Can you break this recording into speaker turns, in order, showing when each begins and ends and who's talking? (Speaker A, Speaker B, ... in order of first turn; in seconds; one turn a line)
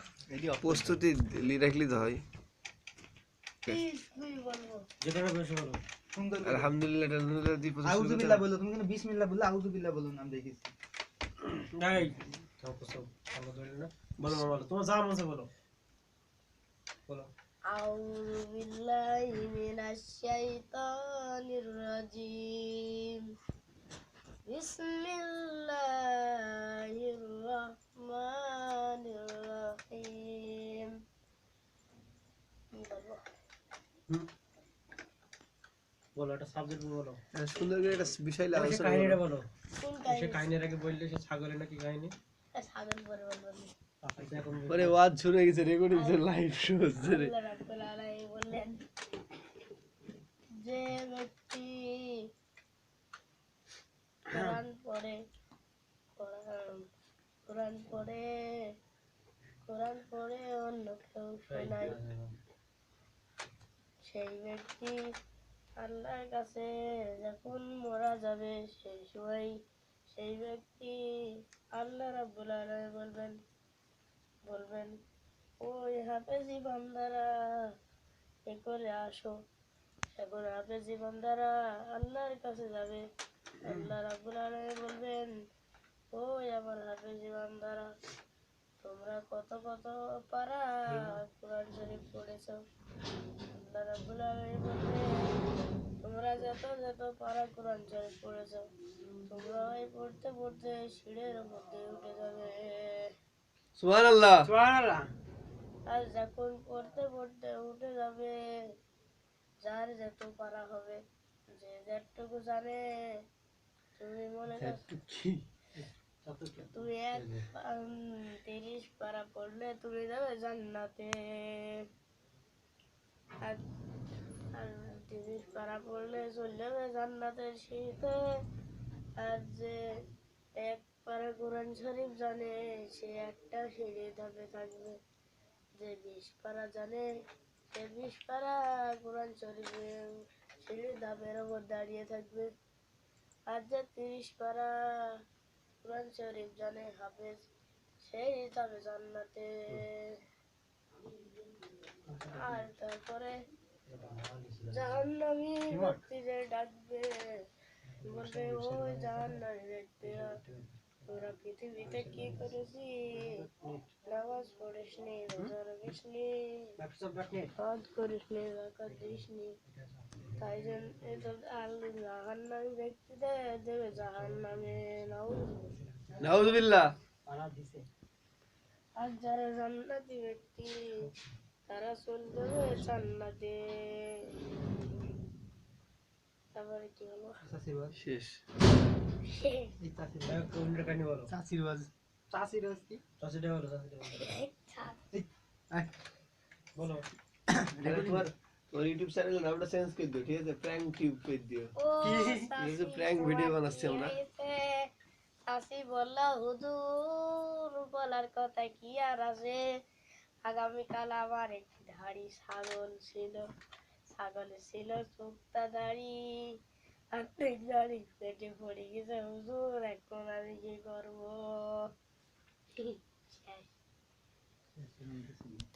Speaker A: 0.3-1.0
Speaker B: 0.4-2.2
Speaker C: 3.6-4.9
Speaker D: 5.0-5.8
Speaker A: 6.1-6.7
Speaker B: 6.4-8.4
Speaker A: 7.8-10.7
Speaker D: 11.7-15.5
Speaker C: 17.7-23.3
Speaker C: 24.4-30.9
Speaker C: 32.7-33.2
Speaker D: 36.2-37.2
Speaker B: 37.3-39.2
Speaker D: 38.5-39.5
Speaker C: 39.8-40.5
Speaker D: 40.0-42.1
Speaker C: 42.5-43.7
Speaker D: 44.0-44.9
Speaker B: 44.7-47.3
Speaker C: 45.9-46.3
Speaker C: 47.0-48.9
Speaker C: 50.6-52.2
Speaker C: 54.3-55.2
Speaker C: 56.2-56.9
Speaker C: 57.5-58.7
Speaker C: 59.6-62.0
Speaker D: 61.5-62.3
Speaker C: 64.0-65.0
Speaker C: 65.8-73.4
Speaker C: 74.5-75.0
Speaker C: 75.6-77.7
Speaker C: 78.5-79.4
Speaker C: 80.1-83.0
Speaker C: 83.6-85.4
Speaker C: 86.1-87.9
Speaker C: 88.8-92.6
Speaker C: 93.5-95.4
Speaker C: 96.0-98.7
Speaker C: 99.3-103.1
Speaker B: 103.8-104.5
Speaker D: 104.5-105.1
Speaker C: 105.9-108.7
Speaker C: 109.6-113.2
Speaker C: 114.0-114.8
Speaker D: 114.6-117.4
Speaker C: 116.7-121.9
Speaker C: 124.5-128.4
Speaker C: 129.2-130.0
Speaker C: 130.6-135.0
Speaker C: 135.8-137.1
Speaker C: 137.7-142.5
Speaker C: 143.5-145.2
Speaker C: 145.8-147.5
Speaker C: 148.0-150.2
Speaker C: 152.2-153.4
Speaker C: 154.7-157.4
Speaker D: 155.7-156.0
Speaker C: 158.0-160.4
Speaker D: 159.0-159.3
Speaker C: 161.0-163.4
Speaker D: 161.9-162.3
Speaker D: 163.2-163.8
Speaker C: 164.1-166.7
Speaker D: 166.8-167.5
Speaker C: 167.6-169.6
Speaker C: 170.4-176.2
Speaker B: 176.2-176.9
Speaker A: 177.3-177.8
Speaker C: 179.0-181.1
Speaker C: 181.7-184.3
Speaker C: 186.5-187.4
Speaker A: 187.4-187.9
Speaker B: 187.9-188.4
Speaker C: 189.2-189.7
Speaker A: 189.8-190.4
Speaker D: 190.2-191.3
Speaker A: 191.3-193.0
Speaker D: 193.2-194.3
Speaker C: 194.1-195.0
Speaker A: 195.1-195.9
Speaker D: 196.8-197.1
Speaker A: 197.5-198.3
Speaker B: 197.8-204.2
Speaker C: 201.8-204.9
Speaker C: 205.5-209.7
Speaker C: 210.4-213.4
Speaker C: 214.1-216.6
Speaker C: 217.1-221.9
Speaker C: 222.8-223.7
Speaker A: 224.8-225.7